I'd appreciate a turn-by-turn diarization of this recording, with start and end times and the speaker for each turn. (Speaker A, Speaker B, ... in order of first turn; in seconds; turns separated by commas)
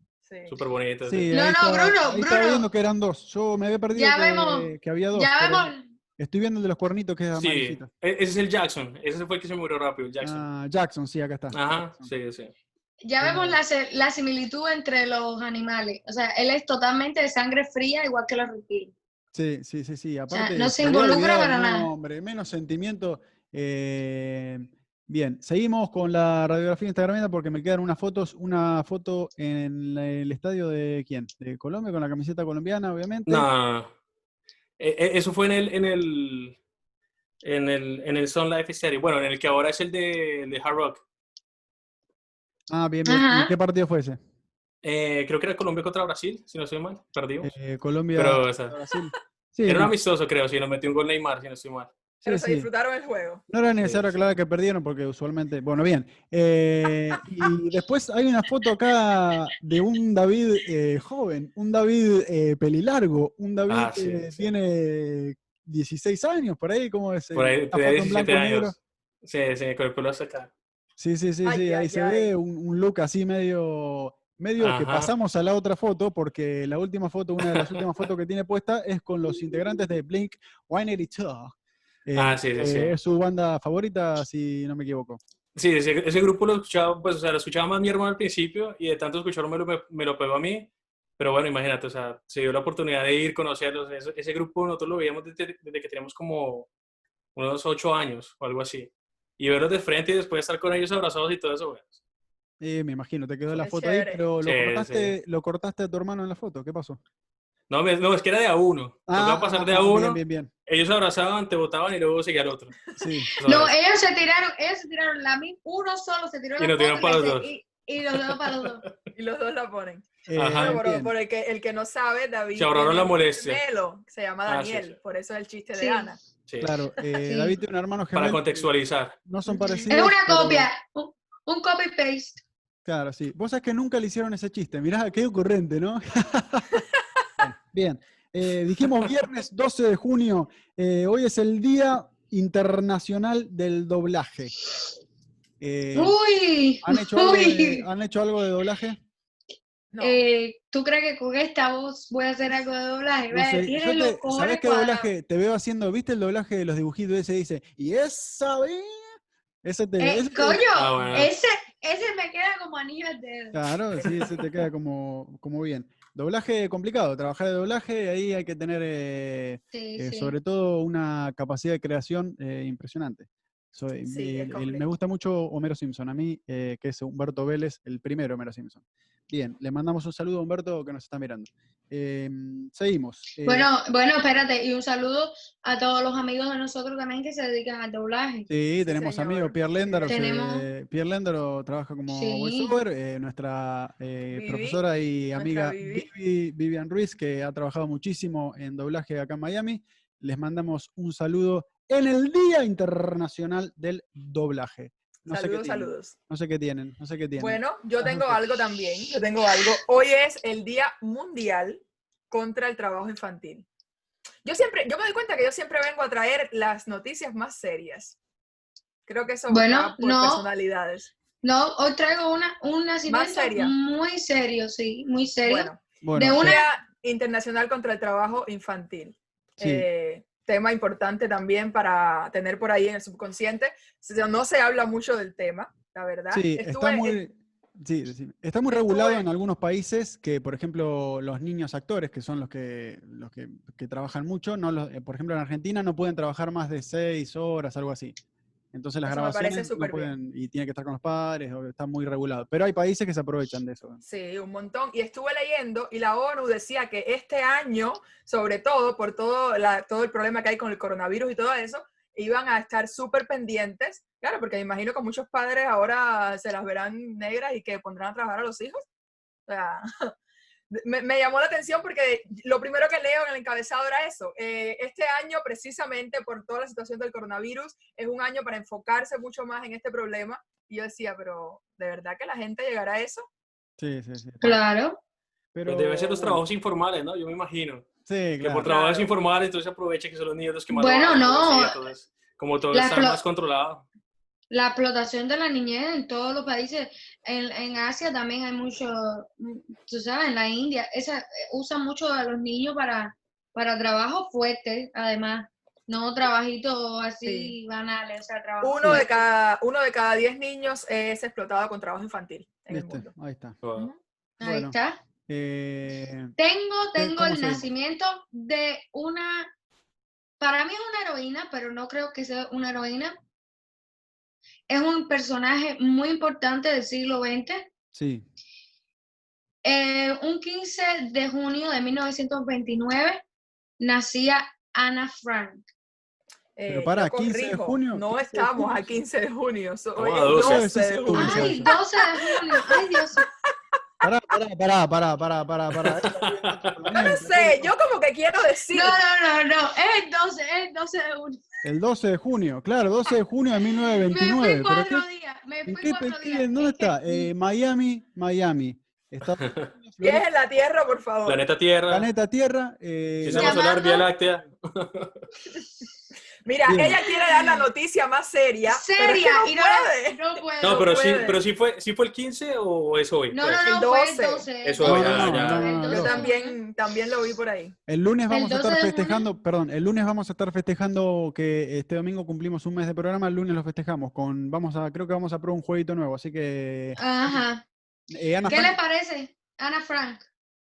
Speaker A: 0.3-0.6, Speaker B: 0.5-1.3, Speaker C: 1.1-7.9, Speaker D: 1.3-2.7, Speaker D: 3.9-5.9, Speaker B: 7.3-10.4, Speaker C: 10.2-12.1, Speaker B: 11.5-12.5, Speaker D: 13.0-18.9, Speaker C: 13.2-13.6, Speaker C: 19.3-33.5, Speaker D: 20.3-21.9, Speaker B: 33.3-33.9, Speaker B: 34.8-36.6, Speaker B: 37.4-41.0, Speaker C: 42.7-44.2, Speaker D: 43.0-43.5, Speaker B: 44.8-47.5, Speaker C: 47.4-49.9, Speaker B: 48.1-48.7, Speaker B: 49.7-51.9, Speaker A: 52.2-53.4, Speaker C: 52.2-52.7, Speaker C: 53.5-68.8, Speaker B: 53.8-54.1, Speaker B: 63.7-64.5, Speaker B: 67.3-70.5, Speaker C: 71.0-81.5, Speaker A: 71.4-72.3, Speaker B: 74.6-75.1, Speaker B: 77.4-77.8, Speaker C: 82.0-85.2, Speaker B: 82.2-82.9, Speaker B: 85.5-96.7, Speaker B: 97.3-102.0, Speaker C: 102.6-107.0, Speaker A: 103.5-104.2, Speaker B: 104.4-105.2, Speaker B: 107.7-112.7, Speaker C: 109.1-110.5, Speaker C: 113.0-113.3, Speaker B: 113.4-113.7, Speaker D: 113.4-118.8, Speaker B: 116.6-117.5, Speaker B: 118.1-118.9, Speaker A: 119.1-126.2, Speaker C: 120.3-121.1, Speaker B: 120.3-120.8, Speaker B: 122.5-123.6, Speaker B: 124.5-125.0, Speaker D: 125.8-126.1, Speaker B: 126.5-126.8, Speaker C: 126.6-128.7, Speaker D: 127.2-127.6, Speaker B: 128.1-129.1, Speaker C: 129.2-130.7, Speaker D: 129.5-132.4, Speaker C: 132.8-136.8, Speaker C: 137.4-144.5, Speaker C: 145.6-146.2, Speaker D: 145.9-147.8, Speaker C: 146.8-149.0, Speaker A: 149.9-150.2, Speaker D: 150.0-155.1, Speaker C: 153.3-159.1, Speaker C: 159.6-160.7, Speaker D: 160.0-163.6, Speaker B: 160.7-161.3, Speaker C: 163.5-183.7, Speaker A: 164.0-164.3, Speaker D: 169.7-170.3, Speaker A: 174.0-174.8, Speaker D: 183.4-188.5, Speaker C: 188.5-208.4, Speaker A: 188.8-190.2, Speaker D: 190.1-190.7, Speaker D: 192.1-192.8, Speaker A: 194.3-194.8, Speaker A: 195.3-196.1, Speaker A: 205.3-206.1, Speaker A: 207.4-213.7, Speaker A: 214.4-218.2, Speaker A: 219.1-221.1, Speaker D: 219.5-220.5, Speaker D: 221.4-226.6, Speaker A: 223.1-223.7, Speaker A: 225.4-225.8, Speaker C: 226.0-226.6, Speaker A: 226.4-237.2, Speaker C: 229.6-229.9, Speaker C: 236.3-248.2, Speaker A: 238.7-239.2, Speaker C: 248.7-254.0, Speaker A: 249.1-250.1, Speaker A: 254.0-268.8, Speaker A: 269.5-270.1, Speaker A: 270.7-283.3, Speaker C: 283.8-284.6, Speaker D: 284.4-285.0, Speaker C: 285.5-286.4, Speaker B: 285.7-287.9, Speaker C: 288.1-288.7, Speaker B: 288.4-293.8, Speaker A: 288.6-289.1, Speaker D: 290.7-291.8, Speaker D: 292.7-293.2, Speaker D: 294.5-309.2, Speaker A: 307.2-307.5, Speaker A: 308.6-313.1, Speaker C: 312.7-313.6, Speaker B: 313.6-313.9, Speaker D: 314.4-315.0, Speaker C: 314.4-314.8, Speaker C: 315.3-316.3, Speaker D: 316.4-319.5, Speaker C: 316.9-317.7, Speaker D: 320.4-323.2, Speaker D: 324.7-327.7, Speaker C: 327.9-328.2, Speaker D: 329.6-333.2, Speaker D: 333.8-335.6, Speaker A: 336.6-343.0, Speaker C: 336.7-338.9, Speaker B: 340.0-340.7, Speaker C: 340.3-341.7, Speaker D: 341.1-343.2, Speaker C: 344.0-347.7, Speaker B: 345.8-346.8, Speaker A: 346.9-349.0, Speaker D: 348.7-351.4, Speaker C: 351.6-355.0, Speaker D: 353.8-357.3, Speaker C: 355.6-360.3, Speaker B: 359.4-359.7, Speaker A: 360.0-361.4, Speaker B: 361.2-362.1, Speaker C: 361.9-363.6, Speaker B: 363.2-365.1, Speaker D: 363.3-364.1, Speaker A: 366.4-371.4, Speaker C: 366.6-367.0, Speaker D: 367.0-367.7, Speaker D: 368.7-371.1, Speaker B: 370.6-373.7, Speaker D: 373.3-376.6, Speaker A: 373.6-374.5, Speaker B: 374.6-375.7, Speaker C: 374.8-376.3, Speaker A: 375.6-377.8, Speaker C: 377.9-387.4, Speaker D: 378.3-379.3, Speaker D: 387.0-387.6, Speaker C: 388.1-388.8, Speaker D: 388.5-390.2